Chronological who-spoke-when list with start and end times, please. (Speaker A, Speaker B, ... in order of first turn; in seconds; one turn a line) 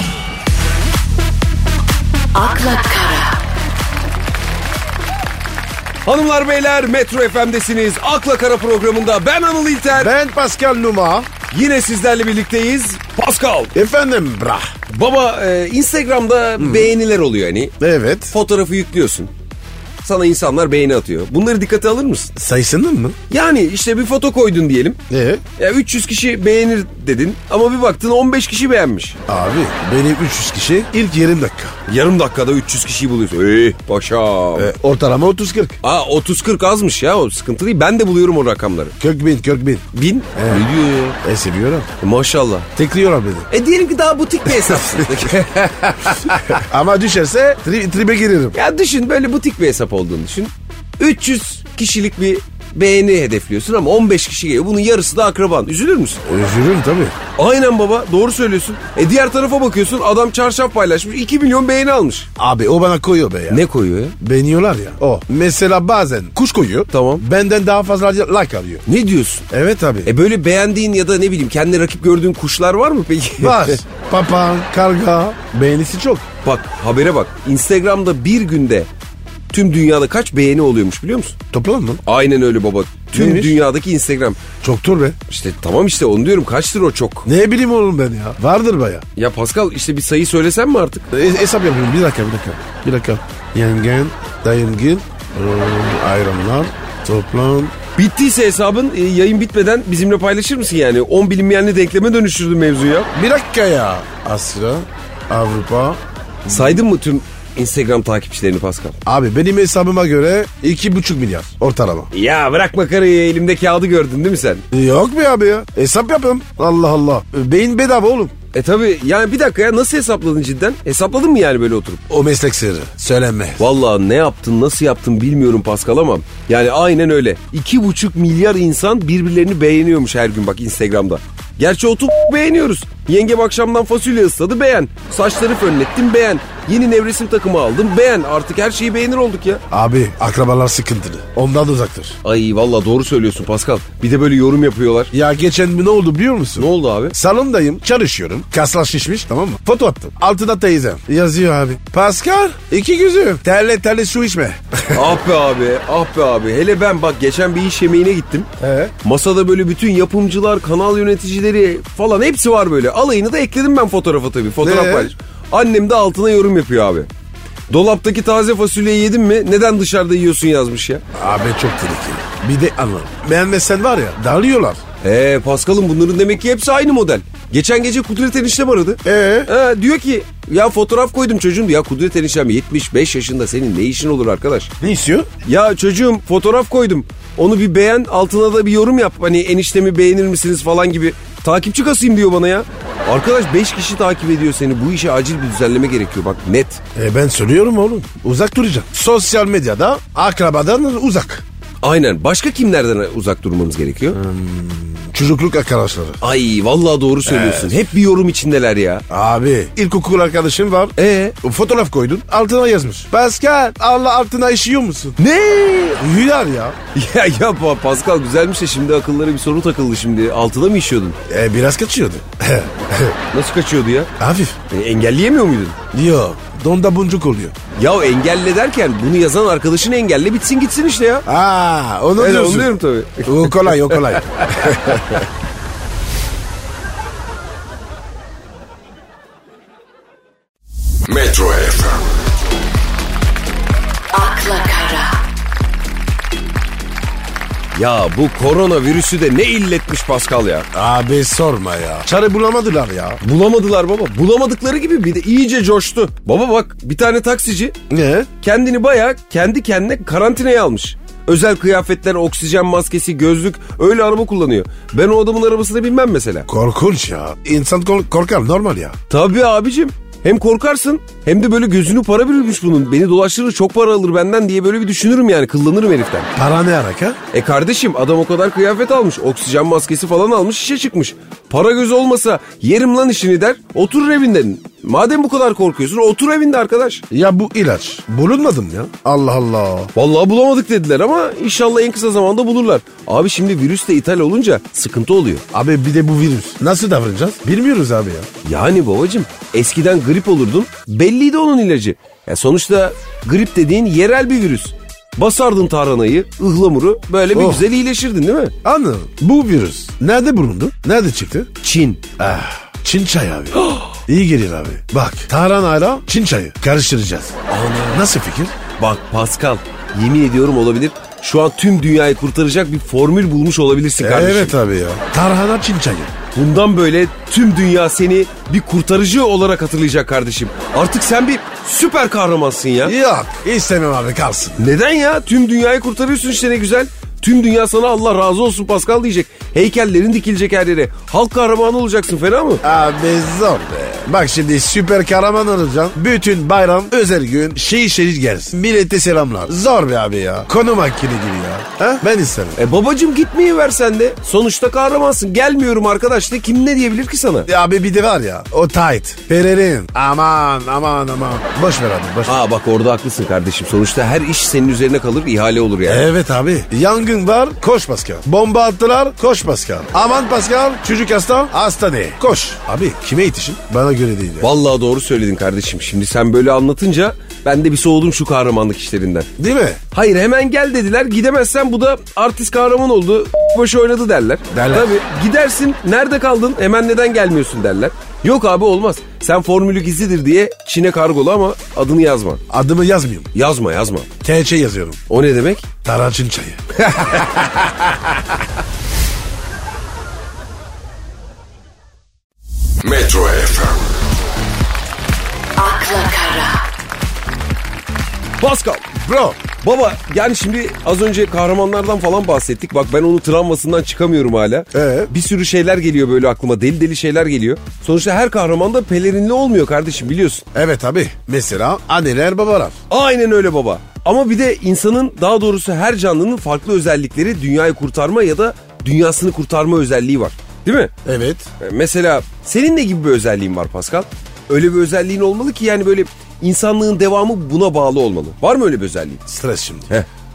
Speaker A: 2.3-3.4
Speaker B: 6.0-10.1
Speaker C: 9.9-11.3
Speaker B: 11.5-13.8
Speaker C: 13.7-14.7
Speaker B: 14.9-17.7
Speaker C: 16.6-16.9
Speaker C: 17.8-18.3
Speaker B: 18.3-19.3
Speaker B: 20.0-22.3
Speaker C: 22.4-23.2
Speaker B: 23.3-25.0
Speaker C: 25.1-25.4
Speaker B: 25.6-29.2
Speaker C: 29.3-31.8
Speaker B: 31.9-34.7
Speaker C: 34.5-35.8
Speaker B: 35.8-39.0
Speaker C: 39.0-40.7
Speaker B: 39.9-41.2
Speaker C: 41.2-41.9
Speaker B: 42.0-42.7
Speaker C: 42.8-43.5
Speaker B: 43.5-46.6
Speaker C: 44.5-45.3
Speaker C: 46.1-48.5
Speaker B: 48.5-56.2
Speaker C: 56.2-57.2
Speaker B: 57.4-62.3
Speaker C: 62.4-63.6
Speaker B: 63.5-64.2
Speaker C: 64.2-68.8
Speaker B: 66.9-67.2
Speaker B: 68.9-69.5
Speaker C: 69.5-70.1
Speaker B: 70.0-73.8
Speaker C: 73.4-76.3
Speaker B: 76.4-78.9
Speaker B: 79.5-81.4
Speaker C: 81.5-82.0
Speaker B: 82.0-84.4
Speaker C: 83.1-83.6
Speaker C: 84.6-85.2
Speaker B: 85.3-87.3
Speaker C: 87.2-89.0
Speaker B: 89.2-91.1
Speaker C: 91.1-97.8
Speaker B: 98.0-103.1
Speaker C: 103.2-106.8
Speaker B: 106.5-109.0
Speaker C: 109.1-112.1
Speaker B: 112.1-114.6
Speaker C: 114.7-118.3
Speaker B: 118.5-122.0
Speaker C: 122.1-123.6
Speaker B: 123.6-139.6
Speaker C: 139.7-142.2
Speaker B: 142.2-145.1
Speaker C: 145.1-155.2
Speaker B: 146.6-147.2
Speaker B: 154.9-158.5
Speaker C: 158.6-158.9
Speaker B: 159.0-167.1
Speaker C: 164.6-165.1
Speaker B: 167.7-171.0
Speaker C: 171.1-174.8
Speaker B: 175.0-184.7
Speaker C: 179.0-179.5
Speaker C: 184.8-185.3
Speaker B: 185.4-196.8
Speaker C: 196.9-201.4
Speaker B: 201.8-204.2
Speaker C: 204.1-206.2
Speaker B: 206.2-209.0
Speaker C: 207.2-207.8
Speaker C: 209.1-215.2
Speaker B: 211.0-211.3
Speaker B: 215.2-216.1
Speaker C: 216.0-216.8
Speaker B: 216.9-221.2
Speaker C: 221.3-223.2
Speaker B: 223.3-224.1
Speaker C: 224.2-224.6
Speaker B: 224.7-225.8
Speaker C: 225.9-227.5
Speaker B: 227.8-231.2
Speaker C: 231.2-235.3
Speaker B: 232.2-235.2
Speaker A: 244.1-245.2
Speaker B: 247.7-250.7
Speaker C: 250.7-253.2
Speaker B: 253.2-257.8
Speaker C: 257.9-258.3
Speaker B: 258.4-266.5
Speaker C: 266.5-269.0
Speaker B: 269.1-276.3
Speaker C: 276.4-277.2
Speaker B: 277.3-287.0
Speaker C: 287.1-289.9
Speaker B: 289.9-295.4
Speaker C: 295.5-298.3
Speaker B: 298.4-308.6
Speaker C: 307.3-307.6
Speaker C: 308.6-311.5
Speaker B: 311.6-312.0
Speaker C: 312.2-317.4
Speaker B: 317.5-318.1
Speaker C: 317.9-318.6
Speaker B: 318.8-324.6
Speaker C: 324.0-326.1
Speaker B: 326.3-332.9
Speaker C: 332.8-334.7
Speaker B: 334.6-342.6
Speaker C: 342.6-352.6
Speaker B: 352.6-357.5
Speaker C: 357.5-362.4
Speaker B: 362.2-366.1
Speaker C: 365.8-374.5
Speaker B: 374.4-379.3
Speaker C: 379.4-379.8
Speaker B: 379.9-392.4
Speaker C: 384.5-384.9
Speaker C: 392.5-393.3
Speaker B: 393.3-394.1
Speaker C: 394.2-395.0
Speaker B: 395.1-395.7
Speaker C: 395.8-397.7
Speaker B: 396.9-397.5
Speaker A: 405.6-406.6
Speaker B: 408.4-408.9
Speaker C: 408.9-409.4
Speaker B: 409.6-420.4
Speaker C: 414.7-415.1
Speaker C: 420.5-422.8
Speaker B: 422.9-430.9
Speaker C: 431.1-431.5
Speaker B: 431.6-439.2
Speaker C: 439.3-439.9